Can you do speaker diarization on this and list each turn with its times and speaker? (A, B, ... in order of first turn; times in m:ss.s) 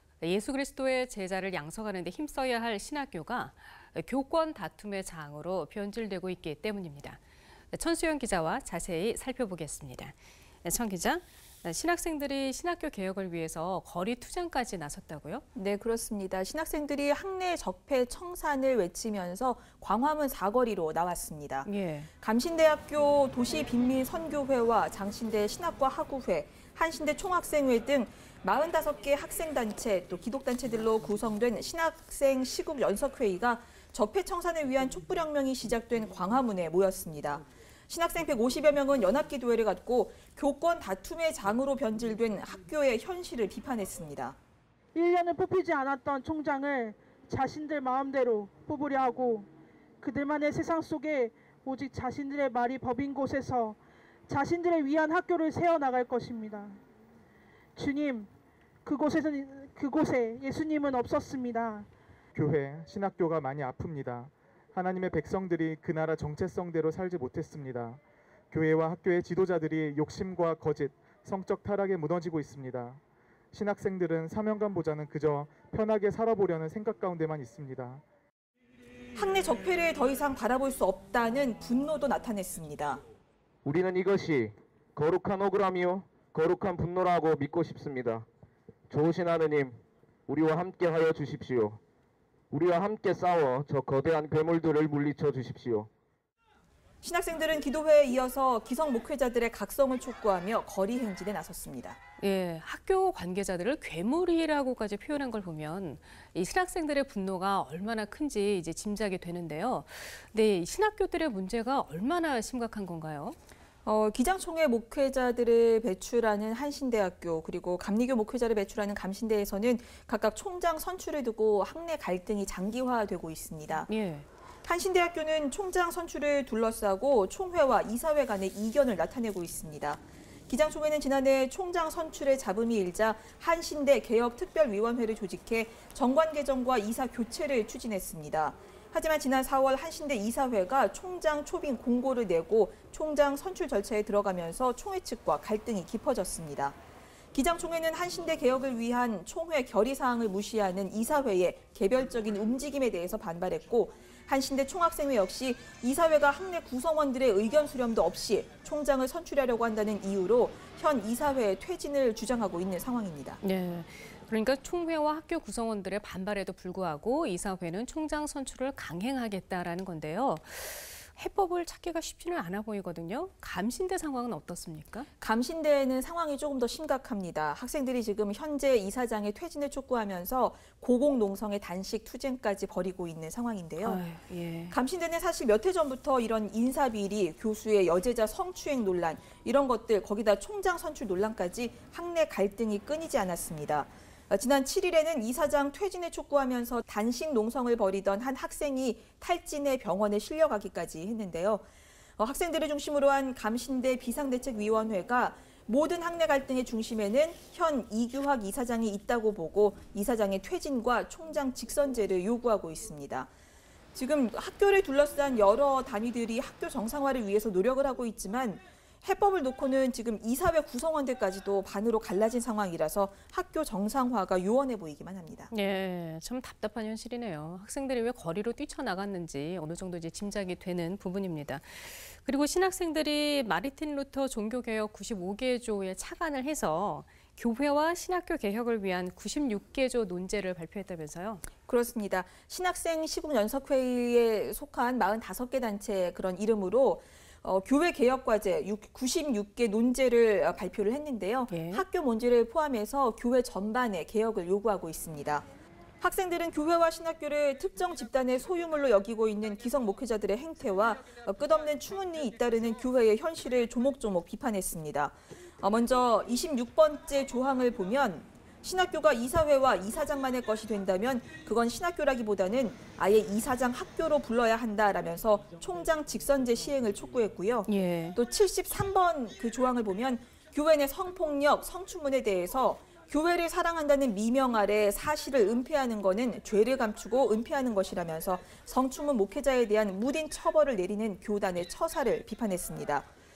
0:00.2-0:07.2 A
0:07.7-0:15.4 A
0:15.6-0:21.7 B
0:21.6-0:22.1 A
0:22.2-0:44.4 B
0:45.0-0:49.5 C
0:50.0-0:56.8 C
0:57.8-0:58.3 C
0:58.8-1:01.9 C
1:02.4-1:13.0 D
1:13.5-1:18.0 D
1:19.2-1:23.0 B
1:23.6-1:28.3 E
1:28.9-1:31.8 E
1:32.5-1:35.9 E
1:37.0-1:42.0 B
1:42.2-1:53.4 A
1:53.8-2:03.9 B
2:03.9-2:04.3 A
2:04.6-2:26.8 B
2:27.3-2:43.4 B
2:43.4-2:55.1 A
2:55.2-3:04.0 B
3:03.8-3:04.8 A
3:04.7-3:21.6 B
3:22.2-3:33.3 B
3:34.0-3:45.5 B
3:45.5-4:01.5 A
4:01.7-4:15.5 B
4:11.5-4:11.8 A
4:16.0-4:53.1 B
4:37.7-4:38.2 A